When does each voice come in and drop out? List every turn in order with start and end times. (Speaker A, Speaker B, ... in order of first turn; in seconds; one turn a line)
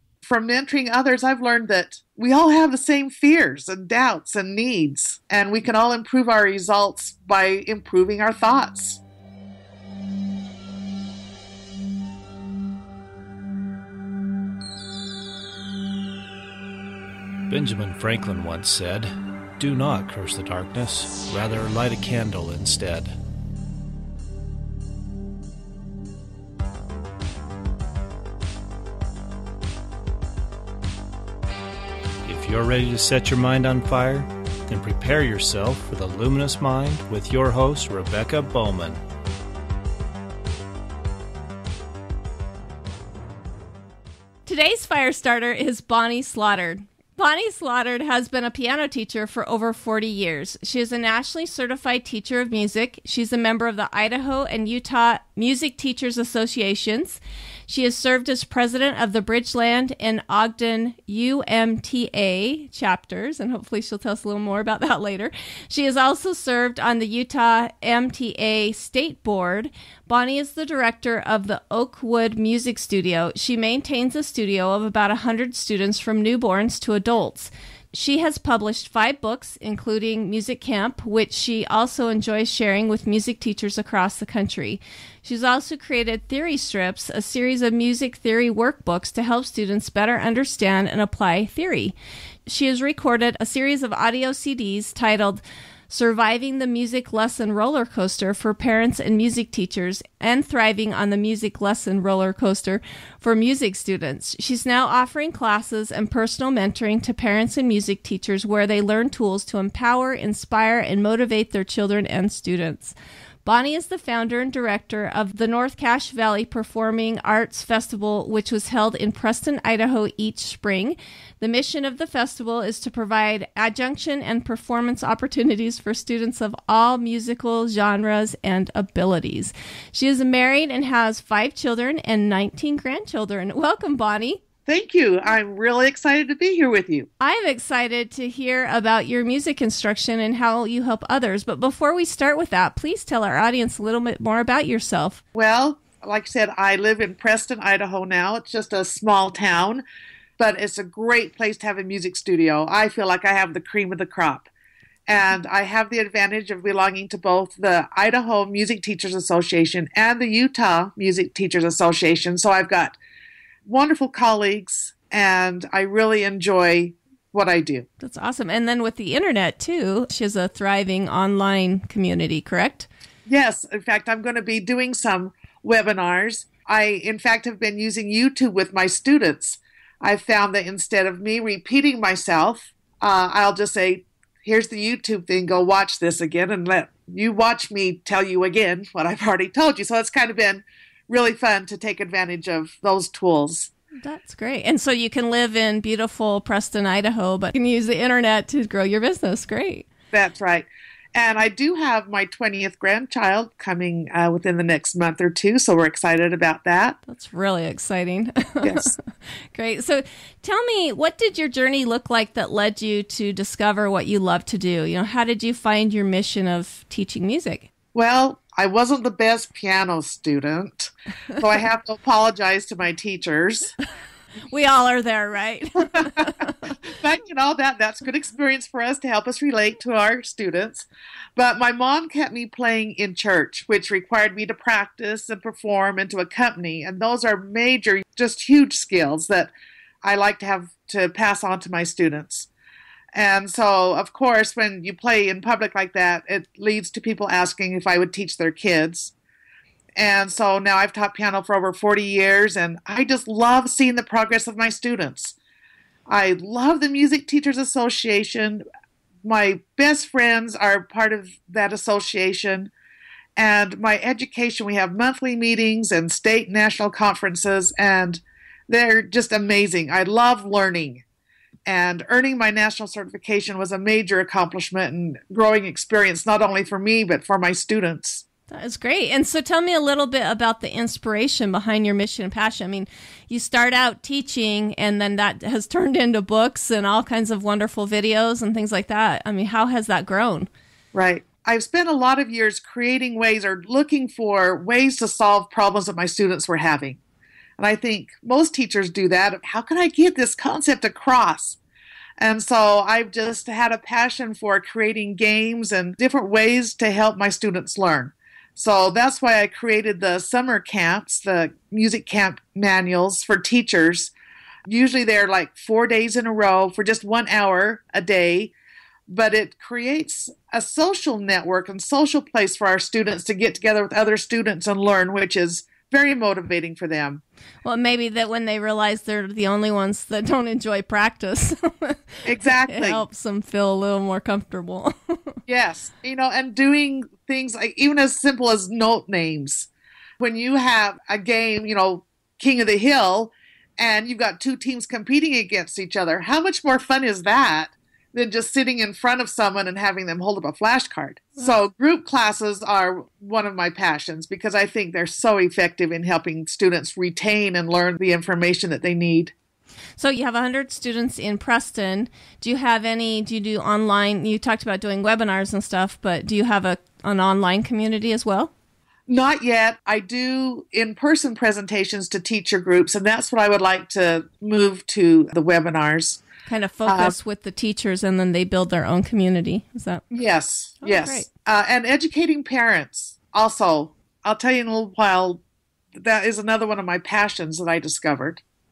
Speaker A: 0.2-9.0
Speaker B: 17.5-23.1
Speaker B: 32.2-39.0
Speaker C: 44.5-91.9
Speaker C: 92.5-134.4
Speaker A: 134.7-137.1
Speaker C: 137.2-145.2
Speaker A: 145.3-149.8
Speaker A: 150.4-154.5
Speaker A: 155.1-162.9
Speaker A: 163.6-167.9
Speaker C: 168.0-172.9
Speaker A: 173.3-193.7
Speaker C: 194.0-199.8
Speaker A: 200.1-207.0
Speaker C: 207.1-208.9
Speaker A: 208.6-208.9
Speaker C: 209.5-217.7
Speaker A: 217.9-223.8
Speaker C: 224.4-226.7
Speaker A: 225.9-226.3
Speaker A: 226.8-239.5
Speaker A: 240.0-242.5
Speaker A: 243.1-249.1
Speaker A: 249.9-255.3
Speaker A: 256.1-258.6
Speaker A: 259.2-262.7
Speaker A: 263.4-271.0
Speaker A: 271.6-278.2
Speaker C: 278.5-290.5
Speaker A: 290.9-297.0
Speaker A: 297.6-301.6
Speaker A: 302.2-314.1
Speaker A: 314.6-318.5
Speaker A: 319.1-327.2
Speaker C: 327.6-335.4
Speaker A: 332.2-333.0
Speaker A: 335.5-339.7
Speaker A: 340.2-359.3
Speaker C: 360.0-368.5
Speaker A: 369.1-376.2
Speaker C: 376.5-380.0
Speaker A: 376.9-377.1
Speaker A: 380.1-385.4
Speaker C: 380.8-381.3
Speaker A: 385.9-388.4